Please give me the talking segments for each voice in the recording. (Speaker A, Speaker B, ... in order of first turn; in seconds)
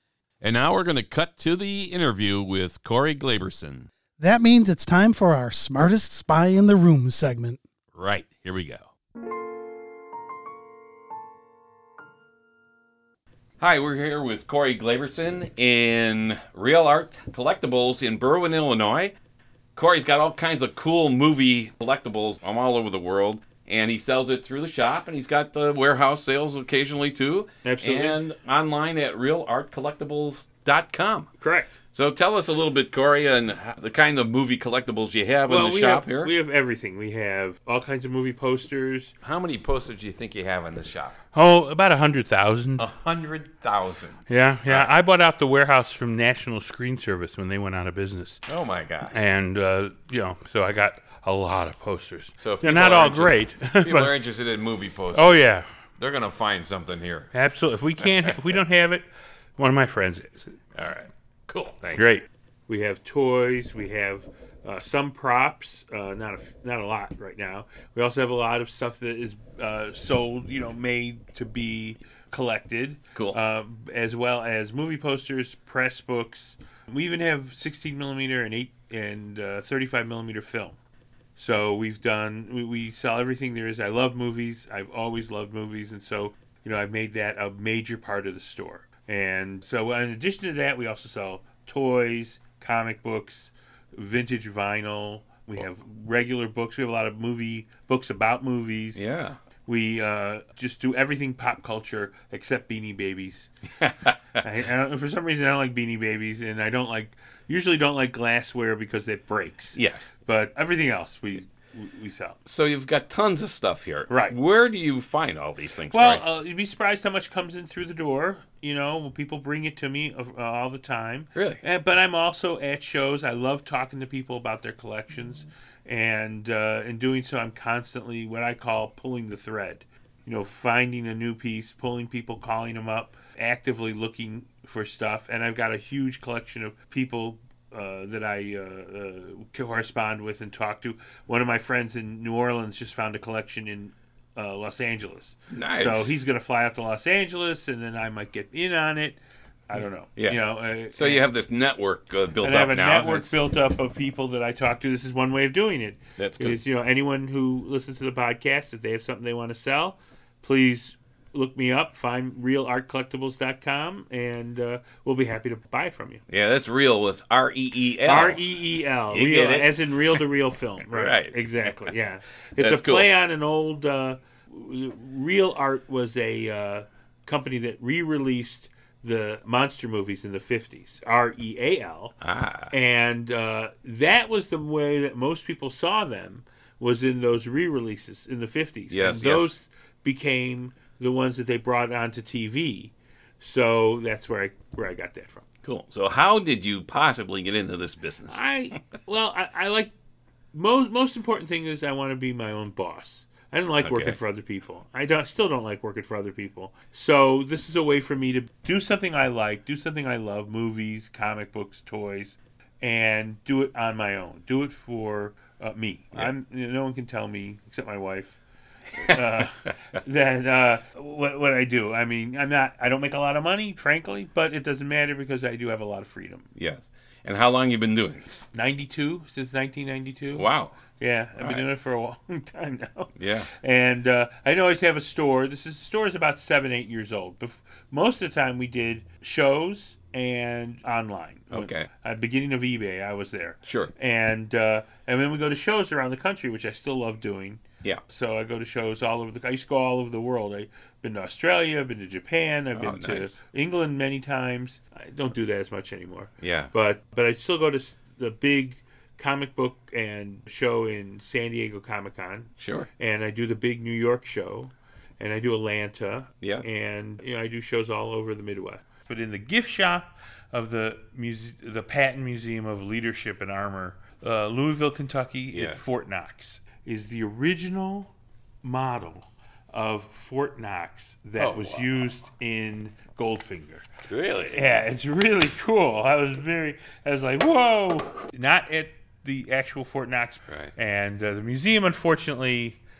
Speaker A: 0.4-3.9, 8.0-8.9, 13.6-19.1, 19.8-31.3, 31.9-36.3, 39.2-41.2, 42.8-44.9, 48.5-49.2, 52.4-55.5, 56.0-57.3, 58.0-58.3, 60.8-62.1, 99.0-99.4, 103.8-104.2, 109.8-110.0, 112.5-116.2, 121.3-121.6, 145.5-146.2, 150.2-150.4, 150.9-153.3, 156.2-156.6, 166.3-168.4, 169.1-170.2, 170.9-171.9, 172.6-173.1, 182.2-182.7, 188.9-189.5, 195.6-198.4, 203.8-204.2, 219.0-219.4, 226.6-228.3, 230.3-230.8, 231.4-231.7, 233.2-233.5, 241.5-241.9, 243.7-243.9, 252.8-253.3, 256.4-256.7, 262.6-262.9, 275.5-275.8, 281.4-282.0, 284.1-284.6
Speaker B: 4.2-7.6
Speaker C: 27.6-28.2, 31.4-31.7, 35.5-39.1, 41.3-42.8, 44.3-48.4, 49.1-54.1, 55.1-55.7, 57.3-59.1, 59.6-60.6, 62.0-80.8, 81.4-99.0, 99.7-103.5, 104.4-112.4, 114.1-114.3, 115.9-151.2, 152.4-166.2, 168.1-182.2, 182.7-195.4, 198.3-199.9, 200.5-218.4, 219.0-226.5, 228.5-230.5, 231.0-278.1, 278.6-283.9, 284.5-292.8